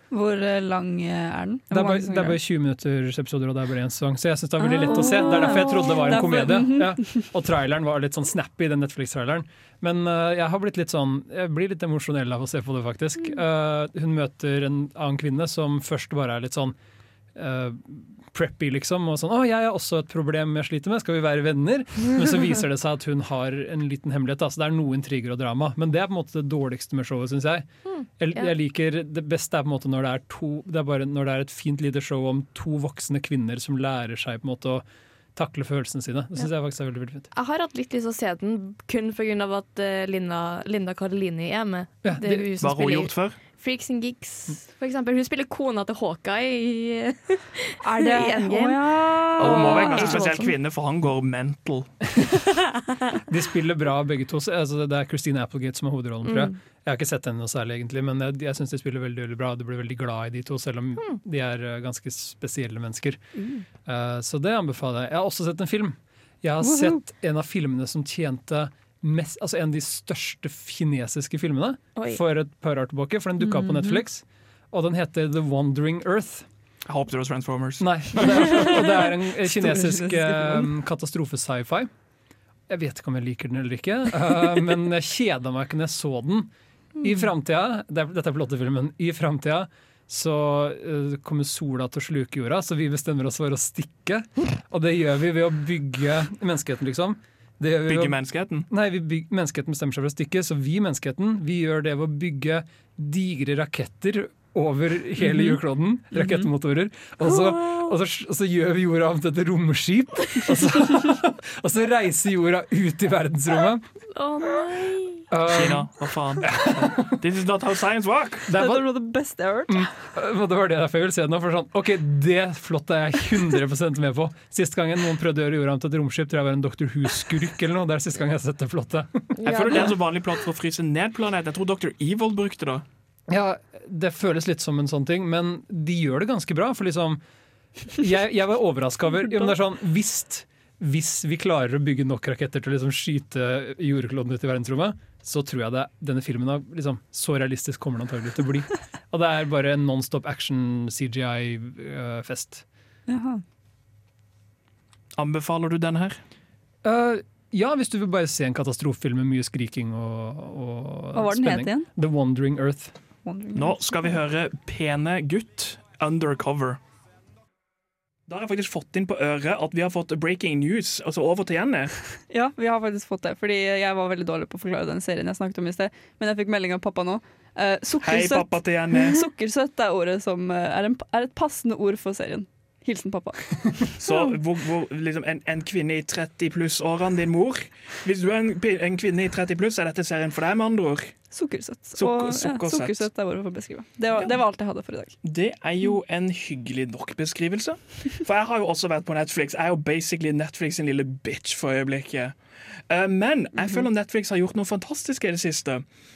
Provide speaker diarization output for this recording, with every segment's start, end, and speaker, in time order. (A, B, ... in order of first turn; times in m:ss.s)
0:00.1-0:02.4 A
0:01.7-0:16.8 B
0:04.6-0:07.2 A
0:05.1-0:05.6 C
0:17.3-0:34.8 B
0:27.9-0:28.5 C
0:35.4-0:37.3 B
0:37.3-0:50.5 C
0:42.0-0:42.5 B
0:42.6-0:43.4 D
0:47.8-0:50.2 A
0:49.4-0:52.1 D
0:53.3-1:03.2 B
0:56.2-0:56.6 C
1:03.8-1:16.5 B
1:06.6-1:07.0 A
1:12.0-1:12.2 C
1:13.4-1:14.0 A
1:16.9-1:18.7 D
1:17.8-1:21.9 B
1:19.4-1:20.7 A
1:22.7-1:38.2 B
1:37.9-1:38.7 D
1:38.7-1:53.8 B
1:45.2-1:45.6 A
1:46.1-1:46.4 A
1:47.2-1:47.9 C
1:54.1-1:55.2 C
1:55.3-1:55.9 B
1:55.5-1:58.5 D
1:56.4-1:57.1 B
1:58.5-1:58.9 B
1:58.5-1:59.9 A
1:59.7-2:09.9 B
2:09.4-2:09.9 C
2:09.4-2:12.8 D
2:13.3-2:17.2 B
2:18.0-2:32.6 B
2:33.1-2:33.4 A
2:35.2-2:36.2 D
2:36.8-2:42.9 B
2:41.1-2:41.9 A
2:43.2-2:43.8 A
2:43.6-2:46.8 D
2:48.3-2:52.0 D
2:52.3-3:04.3 A
2:58.0-2:59.2 D
3:04.0-3:11.2 D
3:11.3-3:15.2 A
3:12.0-3:13.1 D
3:15.2-3:22.3 D
3:22.9-3:25.8 D